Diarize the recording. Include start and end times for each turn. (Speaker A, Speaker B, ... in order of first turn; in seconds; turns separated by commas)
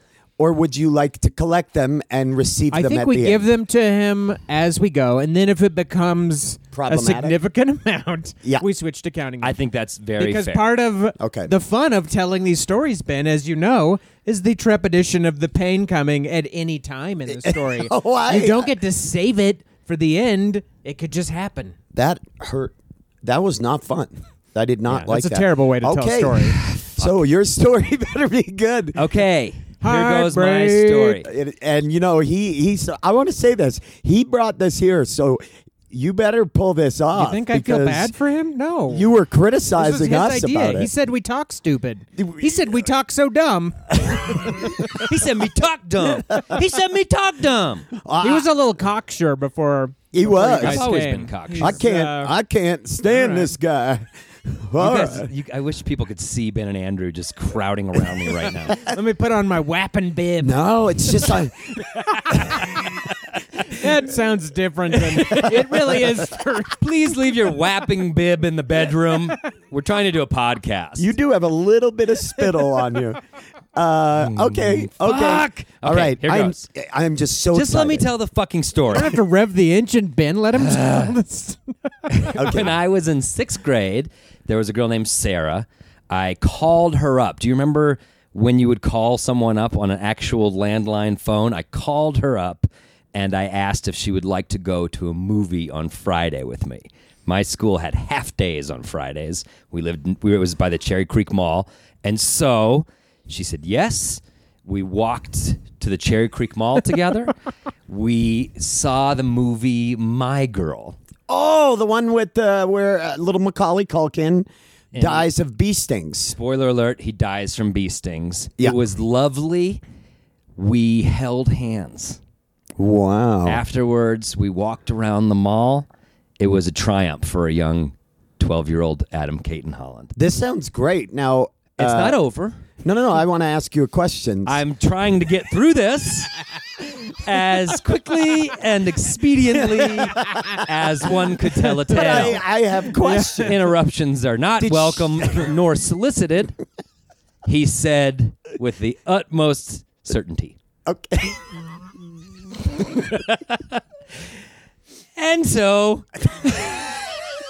Speaker A: 0.4-3.5, Speaker B: 2.7-9.6, Speaker A: 6.7-7.3, Speaker C: 9.4-10.7, Speaker B: 10.2-21.8, Speaker A: 11.2-11.5, Speaker A: 17.3-18.7, Speaker A: 21.9-29.0, Speaker B: 24.9-26.6, Speaker C: 29.0-31.3, Speaker B: 29.8-31.2, Speaker A: 31.2-38.1, Speaker B: 37.1-39.1, Speaker A: 38.9-40.9, Speaker B: 39.8-44.8, Speaker A: 42.2-42.8, Speaker A: 44.1-44.7, Speaker C: 44.9-47.9, Speaker A: 46.3-46.6, Speaker A: 48.0-48.5, Speaker B: 48.2-52.4, Speaker A: 50.1-50.9, Speaker C: 50.5-51.8, Speaker A: 51.6-55.3, Speaker B: 53.1-53.5, Speaker C: 54.8-58.9, Speaker B: 58.8-60.6, Speaker A: 60.4-61.8, Speaker B: 62.3-62.8, Speaker A: 62.3-62.7, Speaker B: 63.6-66.8, Speaker C: 64.9-71.1, Speaker A: 71.0-73.2, Speaker A: 73.8-78.1, Speaker C: 74.2-76.6, Speaker C: 77.5-79.2, Speaker B: 78.9-82.4, Speaker C: 80.6-81.2, Speaker C: 82.1-107.3, Speaker A: 82.3-82.8, Speaker C: 107.9-111.0, Speaker A: 111.3-116.4, Speaker C: 114.9-115.3, Speaker C: 116.3-119.8, Speaker C: 120.6-122.2, Speaker A: 122.8-123.6, Speaker C: 123.5-125.9, Speaker C: 126.4-130.1, Speaker A: 130.2-132.2, Speaker C: 131.8-132.6, Speaker A: 132.8-134.6, Speaker C: 134.5-142.4, Speaker A: 139.7-140.4, Speaker A: 141.9-143.6, Speaker B: 143.0-143.5, Speaker C: 143.3-146.6, Speaker A: 144.6-145.5, Speaker C: 147.4-150.6, Speaker A: 150.9-151.6, Speaker C: 152.9-153.8, Speaker C: 155.2-156.2